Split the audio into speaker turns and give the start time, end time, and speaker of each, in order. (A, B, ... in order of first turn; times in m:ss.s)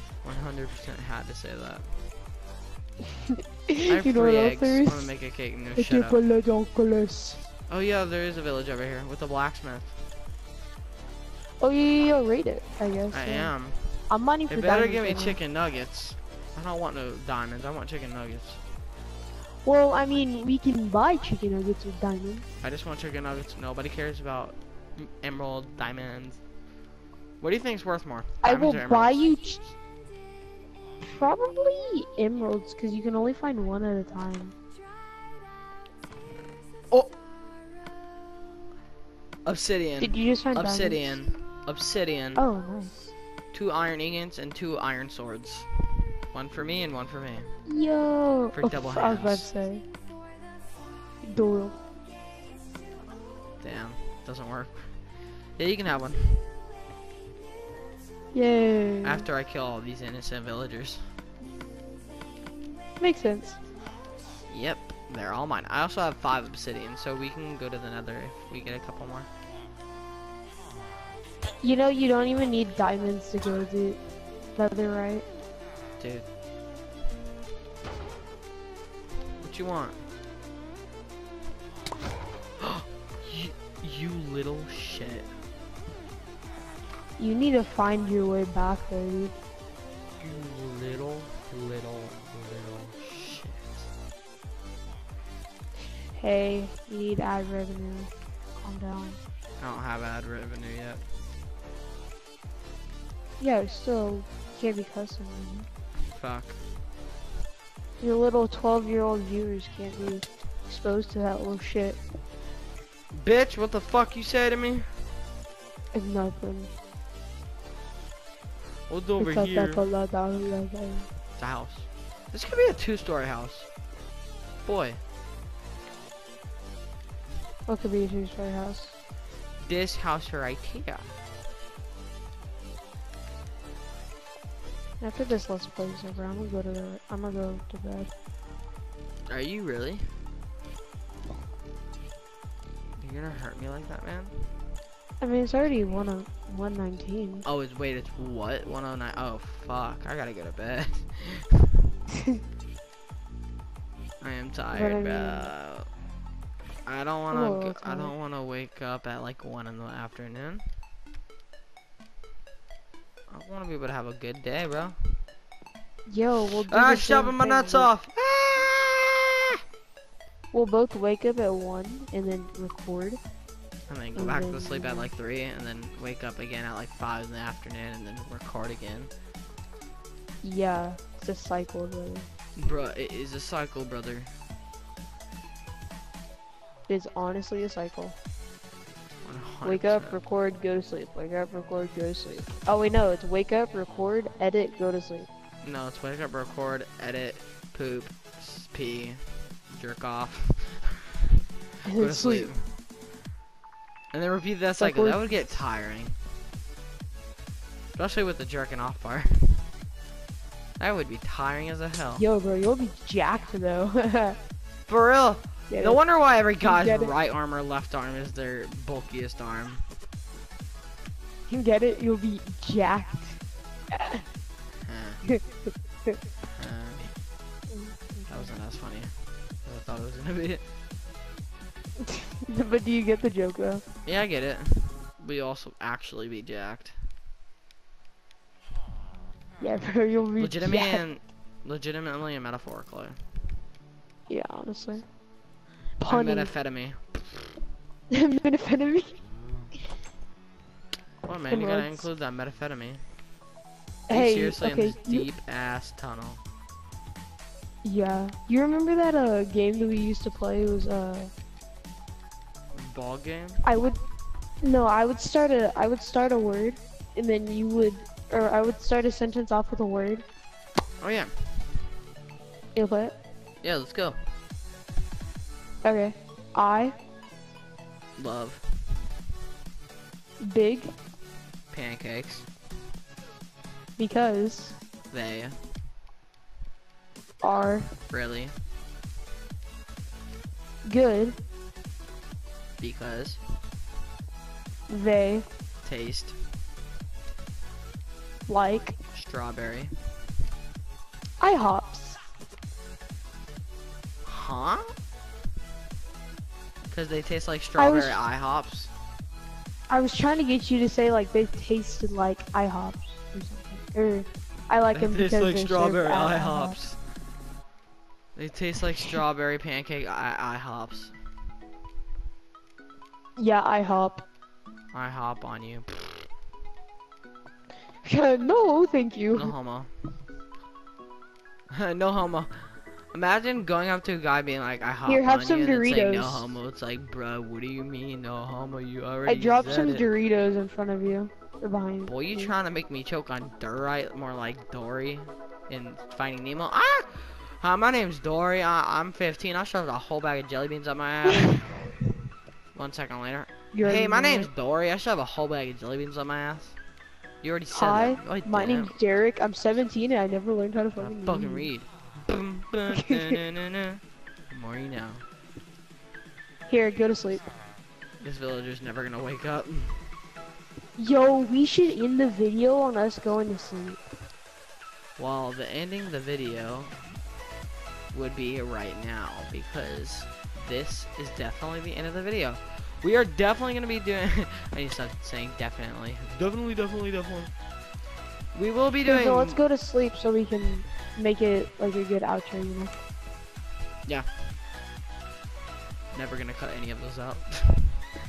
0:00.2-0:01.9 A
0:03.7-0:05.0 B
0:03.9-0:06.2 A
0:05.8-0:07.4 B
0:07.7-0:09.9 A
0:11.6-0:13.5 B
0:13.1-0:18.6 A
0:14.1-0:15.4 B
0:19.6-0:22.5 B
0:22.6-0:26.4 A
0:27.4-0:29.2 A
0:28.4-0:29.6 B
0:31.0-0:34.5 B
0:39.4-0:42.4 A
0:40.0-0:41.1 B
0:42.4-0:43.0 B
0:43.5-0:47.5 A
0:47.7-0:49.8 B
0:48.5-0:49.4 A
0:51.2-0:51.8 B
0:53.6-0:55.0 A
0:55.5-0:56.4 A
0:58.3-0:59.2 B
0:59.0-1:01.0 A
1:03.0-1:03.6 B
1:04.5-1:09.3 A
1:11.6-1:14.0 B
1:14.6-1:15.2 B
1:16.0-1:16.3 A
1:19.4-1:20.0 A
1:22.6-1:25.3 A
1:27.2-1:29.4 B
1:30.2-1:33.9 A
1:36.1-1:39.2 B
1:39.6-1:41.0 A
1:43.4-1:45.7 B
1:46.1-1:46.6 A
1:48.0-1:52.0 B
1:53.1-1:54.9 A
1:55.9-1:56.7 B
1:58.9-1:59.8 A
1:59.2-2:01.1 B
2:01.4-2:03.7 A
2:04.6-2:05.0 A
2:07.7-2:08.9 B
2:09.6-2:11.1 A
2:15.0-2:18.1 B
2:19.3-2:20.1 A
2:23.0-2:24.4 A
2:25.2-2:27.4 B
2:27.4-2:31.9 A
2:34.2-2:35.9 A
2:34.7-2:35.5 B
2:36.8-2:40.6 A
2:37.3-2:38.1 B
2:43.3-2:45.0 A
2:46.1-2:47.9 B
2:46.5-2:49.6 A
2:50.5-2:53.2 B
2:53.9-2:59.1 A
2:54.1-2:55.1 B
3:00.4-3:02.3 B
3:02.6-3:04.3 A
3:06.9-3:08.2 B
3:09.2-3:10.2 A
3:09.6-3:15.3 B
3:15.6-3:21.1 A
3:21.8-3:22.5 B
3:21.9-3:22.6 A
3:24.1-3:26.2 A
3:24.8-3:25.2 B
3:27.9-3:29.6 A
3:30.8-3:32.2 A
3:32.2-3:34.4 B
3:34.9-3:39.8 A
3:35.7-3:36.0 B
3:36.6-3:37.1 B
3:41.5-3:43.4 B
3:43.9-3:44.2 B
3:44.8-3:45.2 A
3:46.5-3:47.1 A
3:47.7-3:48.3 B
3:48.3-3:50.6 A
3:52.1-3:53.8 B
3:54.0-3:57.0 A
3:59.6-4:01.0 B
4:00.4-4:03.2 A
4:04.3-4:05.0 B
4:06.0-4:06.5 B
4:06.0-4:07.5 A
4:08.1-4:09.2 B
4:11.2-4:13.0 A
4:11.5-4:12.0 B
4:14.1-4:15.2 B
4:14.1-4:16.4 A
4:17.8-4:21.3 B
4:22.7-4:23.6 A
4:23.6-4:24.0 B
4:24.6-4:30.2 B
4:31.0-4:31.3 A
4:32.7-4:33.1 B
4:33.6-4:34.2 A
4:35.8-4:37.0 B
4:38.2-4:38.6 A
4:40.4-4:40.9 B
4:41.7-4:42.4 A
4:44.0-4:44.8 B
4:45.1-4:45.6 A
4:47.4-4:47.9 B
4:48.1-4:48.5 A
4:50.8-4:51.3 B
4:52.8-4:53.4 A
4:54.9-4:55.4 B
4:55.8-4:56.4 A
4:58.5-4:59.0 B
4:59.1-4:59.9 A
5:01.4-5:02.2 B
5:04.2-5:04.9 A
5:06.9-5:08.9 A
5:07.8-5:08.2 B
5:09.9-5:16.8 B
5:14.9-5:17.0 A
5:18.3-5:21.1 A
5:23.4-5:24.2 B
5:24.9-5:26.3 A
5:28.0-5:29.5 B
5:29.3-5:29.9 A
5:31.7-5:40.1 A
5:35.0-5:36.5 B
5:39.2-5:42.5 B
5:42.0-5:51.6 A
5:52.7-5:56.8 A
5:53.7-5:54.5 B
5:57.4-5:58.9 A
5:57.7-6:01.7 B
6:01.0-6:05.2 A
6:02.9-6:03.4 B
6:06.7-6:07.4 B
6:08.2-6:10.0 A
6:11.0-6:14.0 B
6:15.2-6:16.9 A
6:18.1-6:27.5 A
6:28.5-6:29.6 A
6:29.0-6:32.9 B
6:36.1-6:38.0 A